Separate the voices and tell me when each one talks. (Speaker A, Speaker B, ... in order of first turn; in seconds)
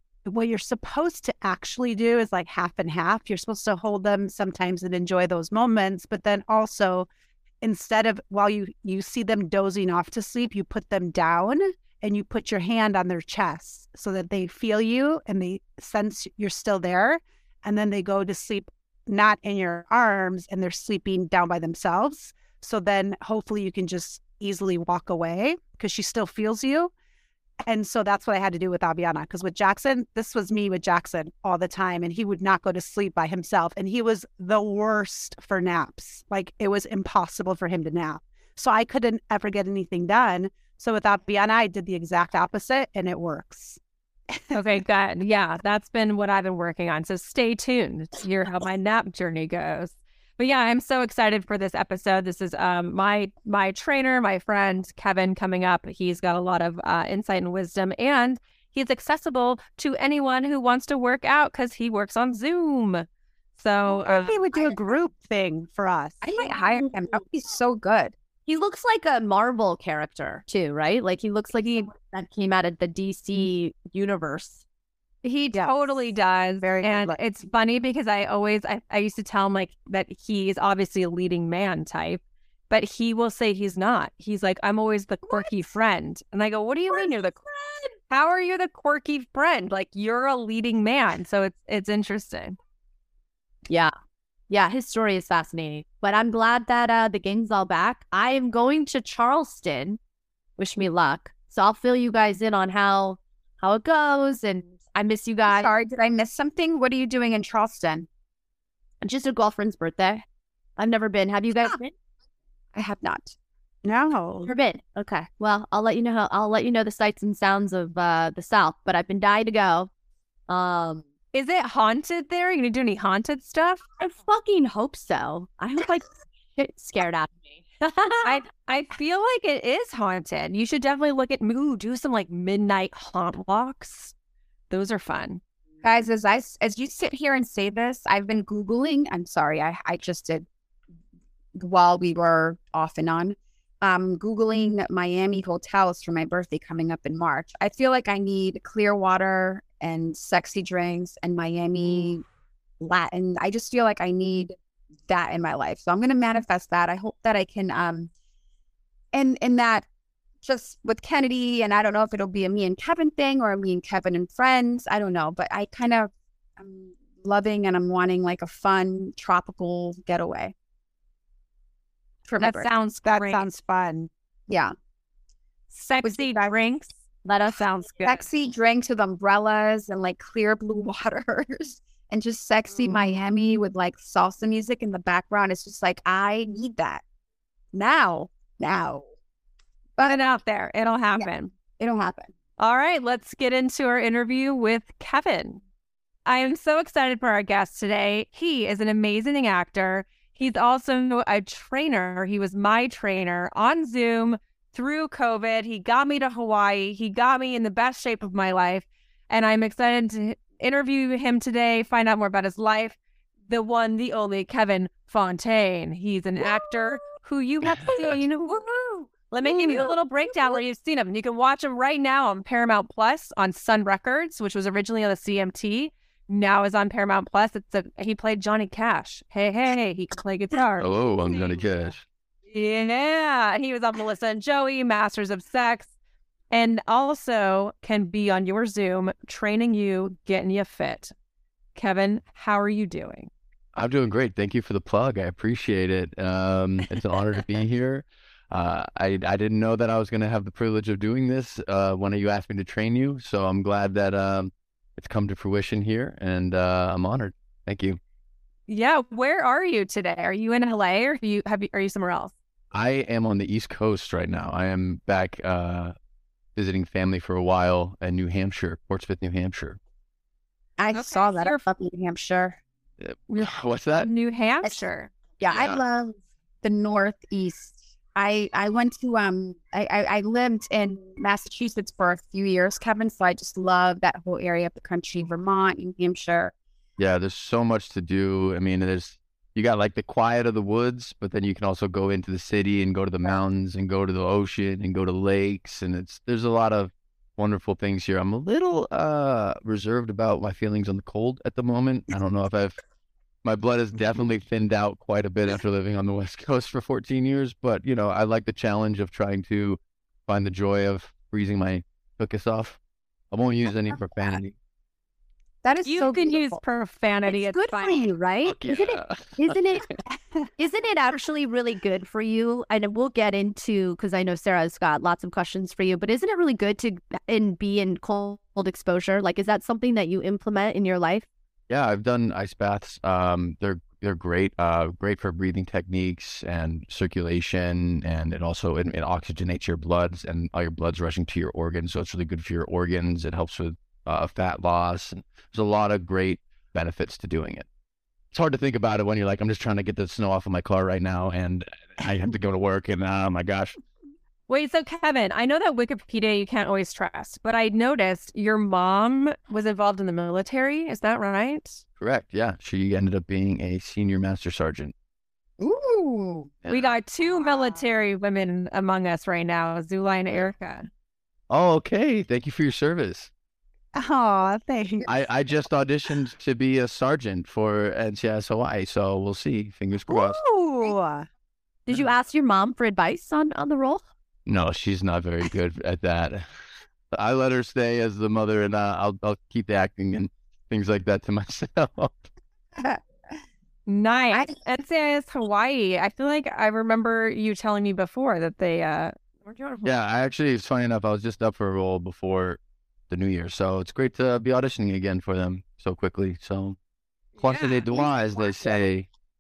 Speaker A: 0.2-7.1, 7.6-26.9, 27.6-43.8, 44.3-44.6, 64.0-66.2, 75.5-75.9, 76.6-77.2, 113.8-114.5, 173.0-174.1, 373.9-375.1, 380.1-381.3
Speaker B: 44.5-63.0, 63.6-64.4, 75.2-87.4, 88.1-92.6, 121.3-123.8, 127.9-134.1, 134.7-135.4, 172.4-173.4, 175.7-178.2, 190.0-191.5, 192.6-195.6, 196.2-213.0, 213.5-231.6, 232.5-235.9, 236.5-241.1, 241.8-243.3, 258.7-262.3, 270.9-271.6, 274.0-275.1, 315.8-318.1, 354.5-361.8, 366.7-370.9, 393.9-399.9, 407.4-407.9
Speaker C: 66.2-68.1, 105.5-108.1, 112.7-113.3, 135.8-140.4, 141.5-152.2, 152.8-154.5, 155.1-158.1, 159.1-159.8, 160.4-170.5, 172.2-172.7, 174.5-174.7, 176.0-176.5, 178.0-187.0, 187.7-189.0, 191.2-192.3, 218.4-220.6, 270.8-272.6, 275.4-286.5, 315.6-316.6, 317.3-318.1, 365.6-366.5, 367.3-367.8
Speaker D: 68.5-74.6, 94.5-100.0, 100.6-105.7, 109.0-110.2, 110.8-111.9, 114.4-119.9, 120.5-121.0, 124.0-127.3, 128.0-128.4, 317.9-319.9, 320.6-331.3, 381.9-384.0
Speaker E: 217.6-217.9, 230.8-232.0, 243.7-258.0, 262.7-265.9, 266.6-269.8, 273.0-274.1, 275.5-275.8, 287.0-302.8, 303.4-312.8, 313.3-314.5, 318.4-319.6, 331.7-347.7, 348.3-353.8, 362.0-364.9, 366.6-367.0, 371.5-373.3, 375.1-380.4, 384.4-386.5, 387.1-392.2, 399.8-402.6, 403.1-406.8, 407.4-409.1